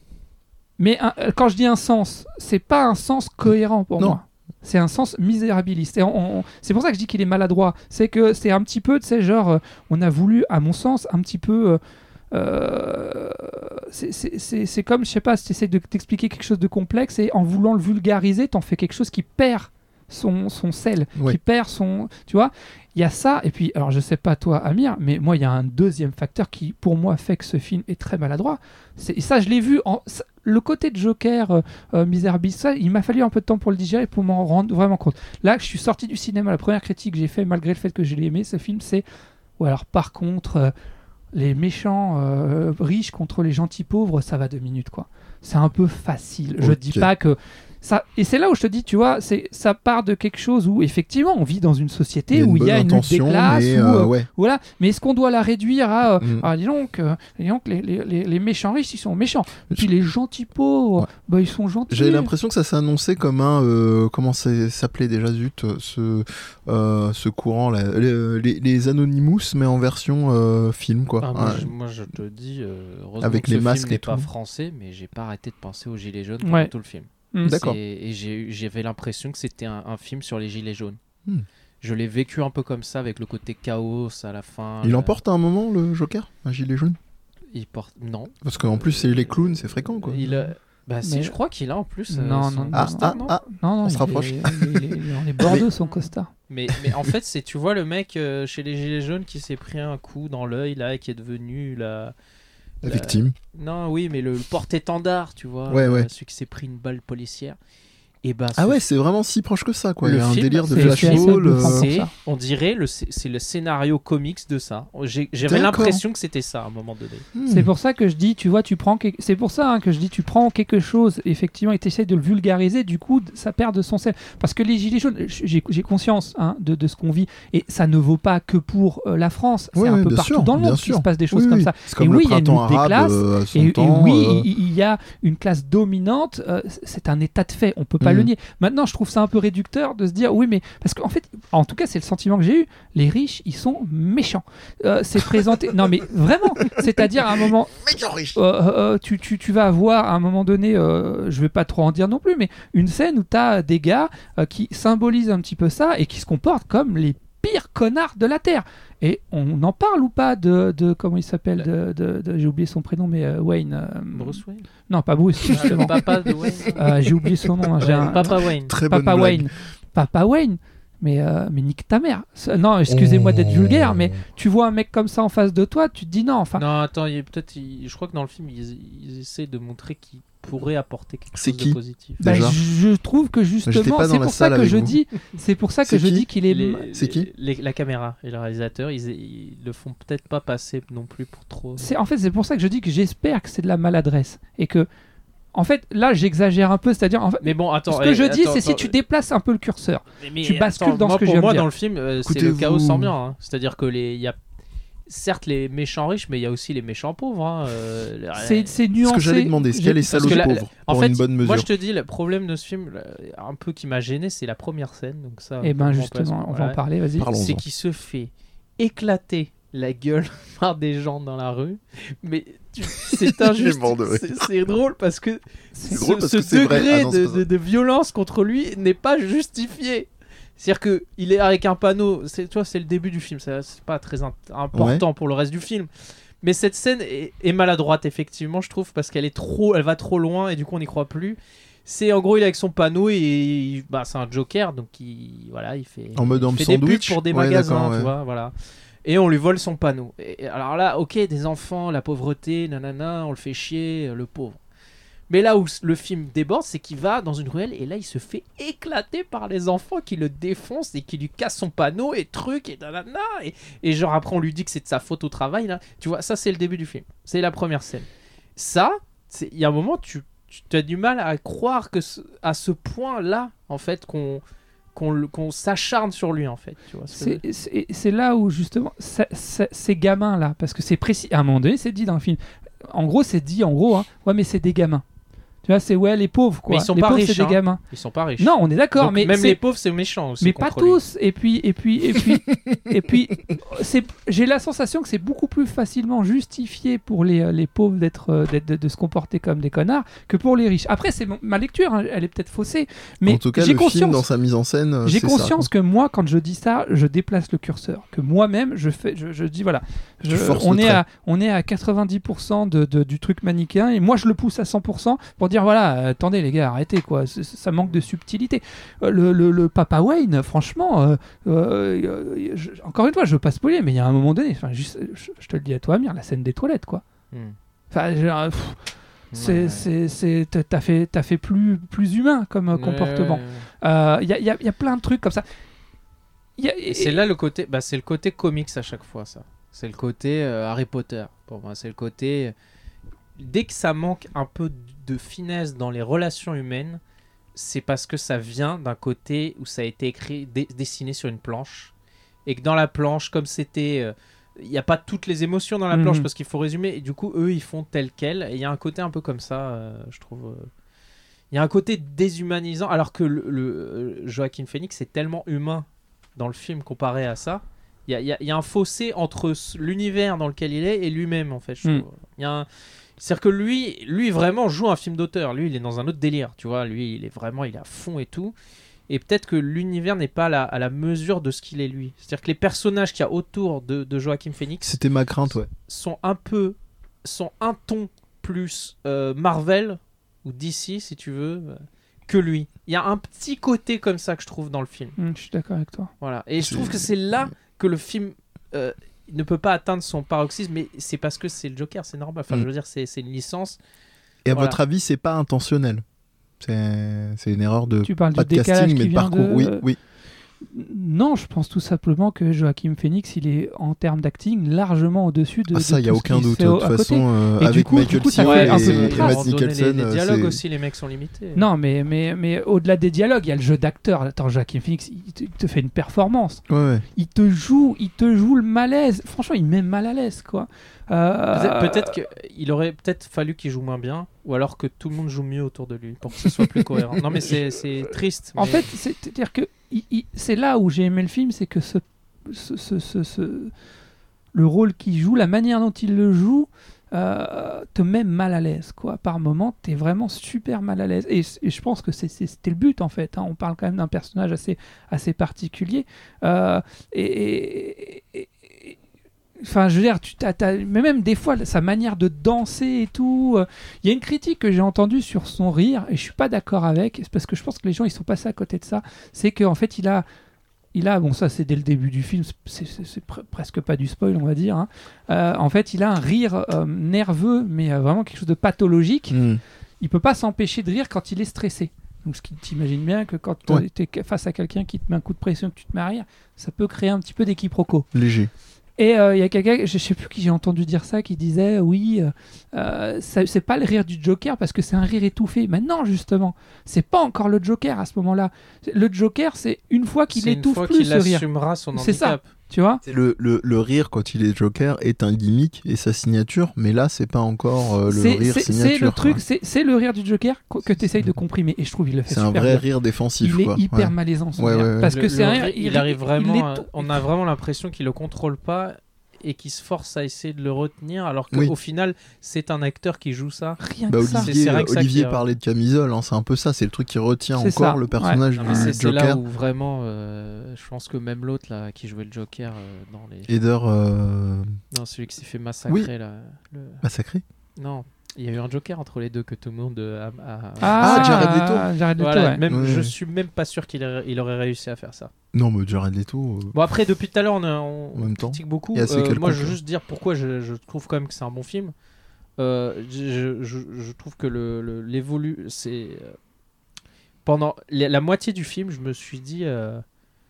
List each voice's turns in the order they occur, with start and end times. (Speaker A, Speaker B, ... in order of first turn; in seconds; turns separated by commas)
Speaker A: 0.8-11.8, Speaker A: 12.3-39.0, Speaker A: 39.6-40.7, Speaker A: 41.3-62.3, Speaker B: 46.6-47.1, Speaker B: 52.3-54.3, Speaker B: 56.2-56.5, Speaker B: 61.9-71.7, Speaker C: 71.2-81.0, Speaker B: 73.2-74.3, Speaker A: 76.4-76.7, Speaker B: 77.5-77.8, Speaker C: 81.8-85.2, Speaker B: 84.8-87.0, Speaker C: 87.5-93.3, Speaker B: 88.4-90.4, Speaker A: 91.0-91.3, Speaker A: 92.1-96.3, Speaker B: 92.7-95.7, Speaker C: 96.5-102.1, Speaker B: 102.8-103.3, Speaker C: 102.8-107.6, Speaker B: 105.7-106.1, Speaker C: 108.2-108.8, Speaker B: 108.6-111.9, Speaker C: 110.0-117.3, Speaker A: 110.7-112.1, Speaker B: 115.5-116.0, Speaker B: 117.3-117.7, Speaker A: 117.5-147.8, Speaker B: 129.8-134.5, Speaker B: 138.0-138.3, Speaker B: 146.7-148.4, Speaker A: 148.3-166.0, Speaker C: 164.1-164.7, Speaker C: 165.5-167.0, Speaker B: 165.5-166.7, Speaker A: 166.7-176.6, Speaker C: 167.8-168.7, Speaker B: 168.6-169.5, Speaker B: 172.9-174.2, Speaker C: 176.6-182.2, Speaker B: 181.3-182.6, Speaker A: 182.2-186.8, Speaker B: 183.7-185.0, Speaker B: 185.9-186.3, Speaker C: 186.5-191.9, Speaker B: 186.9-187.3, Speaker A: 191.8-194.9, Speaker A: 195.5-201.7, Speaker C: 197.4-198.9, Speaker C: 200.2-204.4, Speaker B: 202.2-203.1, Speaker C: 205.1-208.8, Speaker A: 208.3-210.5, Speaker B: 209.0-211.7, Speaker C: 210.2-235.9, Speaker A: 215.6-217.3, Speaker B: 217.2-217.6, Speaker B: 223.1-224.5, Speaker A: 225.8-226.0, Speaker B: 225.9-227.4, Speaker B: 234.7-235.0, Speaker C: 236.4-248.5, Speaker B: 246.2-248.1, Speaker C: 249.1-254.6, Speaker C: 255.3-274.4, Speaker C: 274.9-277.4, Speaker A: 277.1-285.0, Speaker A: 285.6-287.8, Speaker C: 286.7-291.0, Speaker A: 288.4-289.6, Speaker A: 290.4-304.2, Speaker B: 292.1-293.6, Speaker B: 303.2-305.7, Speaker A: 305.0-327.0, Speaker B: 310.3-311.0, Speaker A: 327.9-328.8, Speaker C: 329.3-329.9, Speaker A: 329.3-335.4, Speaker C: 332.7-333.7, Speaker A: 336.6-337.2, Speaker C: 336.9-342.5, Speaker C: 343.4-347.0, Speaker C: 347.5-351.9, Speaker C: 352.5-360.7, Speaker A: 355.9-356.3, Speaker C: 361.5-365.9, Speaker C: 366.4-372.7, Speaker C: 373.2-378.6, Speaker C: 379.1-385.0, Speaker B: 384.8-385.7, Speaker C: 385.7-395.2, Speaker A: 395.2-396.1, Speaker C: 396.2-403.8, Speaker B: 396.6-397.1, Speaker B: 404.5-406.0, Speaker C: 404.5-404.8, Speaker B: 406.6-410.0, Speaker A: 408.0-409.9, Speaker A: 410.6-419.4, Speaker B: 415.7-420.6, Speaker C: 418.4-421.7, Speaker A: 421.6-426.6, Speaker B: 426.7-427.1, Speaker A: 427.2-432.1, Speaker C: 431.5-438.9, Speaker B: 436.4-437.5, Speaker A: 438.6-443.7, Speaker A: 444.5-459.0, Speaker A: 459.6-470.3, Speaker A: 470.9-479.4, Speaker B: 479.3-479.6, Speaker A: 480.0-488.1, Speaker B: 488.1-488.5, Speaker A: 489.0-503.0, Speaker C: 500.3-502.4, Speaker B: 503.0-509.4, Speaker A: 508.1-512.9, Speaker B: 512.3-515.1, Speaker A: 513.4-517.2, Speaker C: 515.0-525.5, Speaker A: 523.8-524.5, Speaker B: 524.1-529.4, Speaker A: 527.6-528.9, Speaker C: 528.5-533.6, Speaker B: 533.5-534.8, Speaker C: 534.9-537.0, Speaker B: 537.0-537.4, Speaker C: 537.8-541.6, Speaker A: 540.8-542.6, Speaker B: 541.0-541.9, Speaker C: 542.2-545.3, Speaker B: 542.7-543.1, Speaker B: 545.5-546.8, Speaker C: 546.7-551.9, Speaker B: 548.1-549.8, Speaker C: 552.6-556.4, Speaker C: 557.5-560.0